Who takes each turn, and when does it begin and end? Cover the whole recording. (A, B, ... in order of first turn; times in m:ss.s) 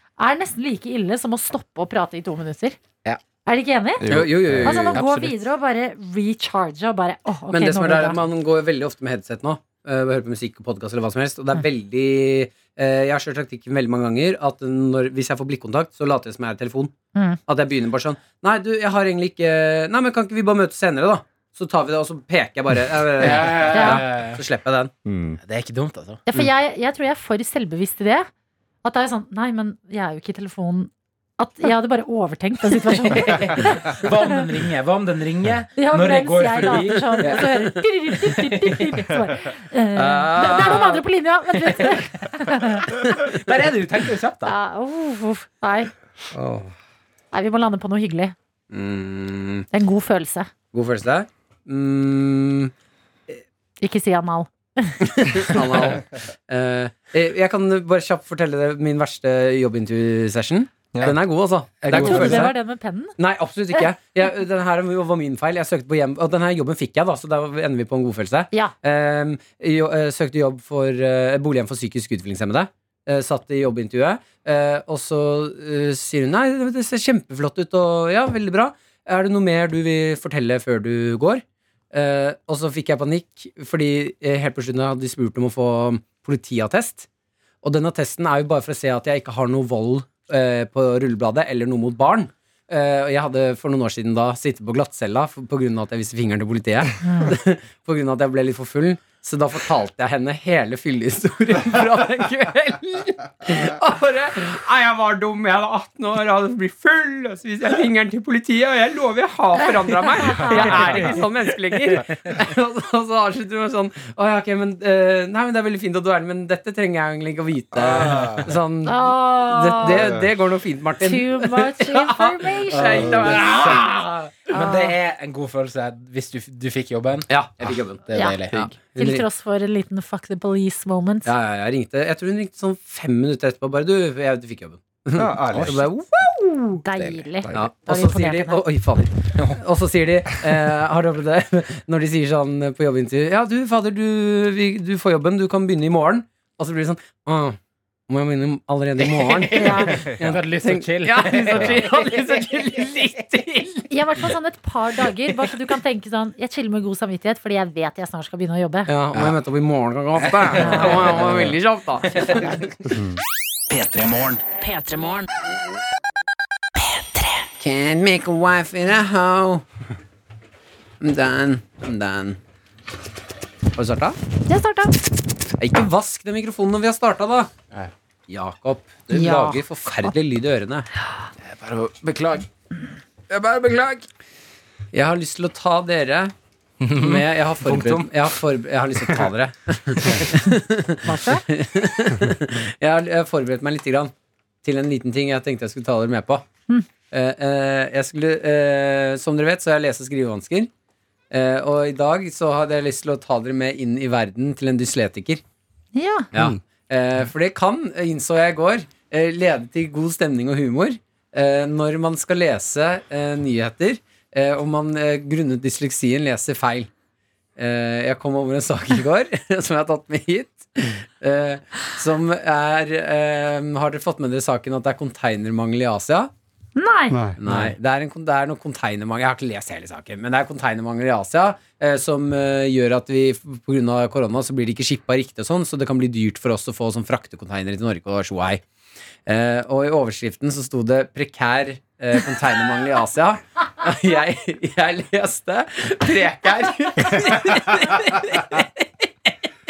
0:00.2-0:02.8 A
0:03.4-0:08.2 A
0:04.0-0:05.0 B
0:04.1-0:05.0 C
0:05.0-0:05.3 D
0:07.5-0:16.9 C
0:17.5-0:24.9 C
0:23.2-0:24.4 D
0:23.7-0:24.0 A
0:25.0-0:25.4 B
0:25.4-0:26.2 D
0:26.3-0:28.3 A
0:28.8-0:34.4 A
0:32.9-0:39.0 D
0:35.8-0:43.0 A
0:39.9-0:41.0 C
0:41.7-0:44.6 D
0:44.4-0:45.9 A
0:46.3-0:46.7 C
0:47.3-0:48.4 A
0:48.7-0:49.7 C
0:49.7-0:50.5 A
0:50.7-0:52.7 C
0:53.8-0:55.6 A
0:55.0-1:02.5 C
1:01.8-1:02.6 D
1:01.9-1:03.1 A
1:03.2-1:27.0 C
1:27.6-2:04.1 C
1:37.0-1:37.4 A
1:50.2-1:50.7 A
1:50.7-1:51.1 B
1:57.7-1:58.5 B
1:58.9-2:00.1 A
1:59.8-2:00.3 B
2:01.0-2:03.2 A
2:02.7-2:08.7 D
2:04.5-2:04.9 A
2:07.3-2:09.3 C
2:09.0-2:11.3 A
2:11.2-2:16.8 C
2:15.2-2:15.8 B
2:16.8-2:18.6 A
2:17.4-2:17.7 B
2:17.5-2:27.6 C
2:28.1-2:33.9 C
2:29.0-2:32.6 D
2:29.6-2:30.0 A
2:33.9-2:38.9 A
2:38.9-2:42.6 C
2:40.2-2:41.6 D
2:40.6-2:41.0 A
2:42.1-2:42.9 D
2:42.9-2:43.2 B
2:43.7-2:44.2 D
2:44.6-2:45.3 A
2:46.8-2:47.4 A
2:47.6-2:49.6 C
2:51.0-2:52.4 C
2:53.7-2:54.2 C
2:54.5-2:55.0 A
2:55.6-2:57.5 C
2:58.3-3:00.9 C
2:59.1-3:00.1 A
3:01.4-3:02.5 D
3:03.3-3:04.0 D
3:04.9-3:06.3 C
3:06.8-3:08.1 D
3:07.0-3:14.1 C
3:11.0-3:11.4 A
3:14.6-3:16.4 C
3:17.1-3:20.7 C
3:21.3-3:25.4 C
3:26.0-3:26.3 A
3:26.3-3:36.9 C
3:37.6-3:46.3 C
3:46.8-3:47.2 A
3:47.1-3:47.7 B
3:47.4-3:58.6 C
3:59.3-4:09.3 C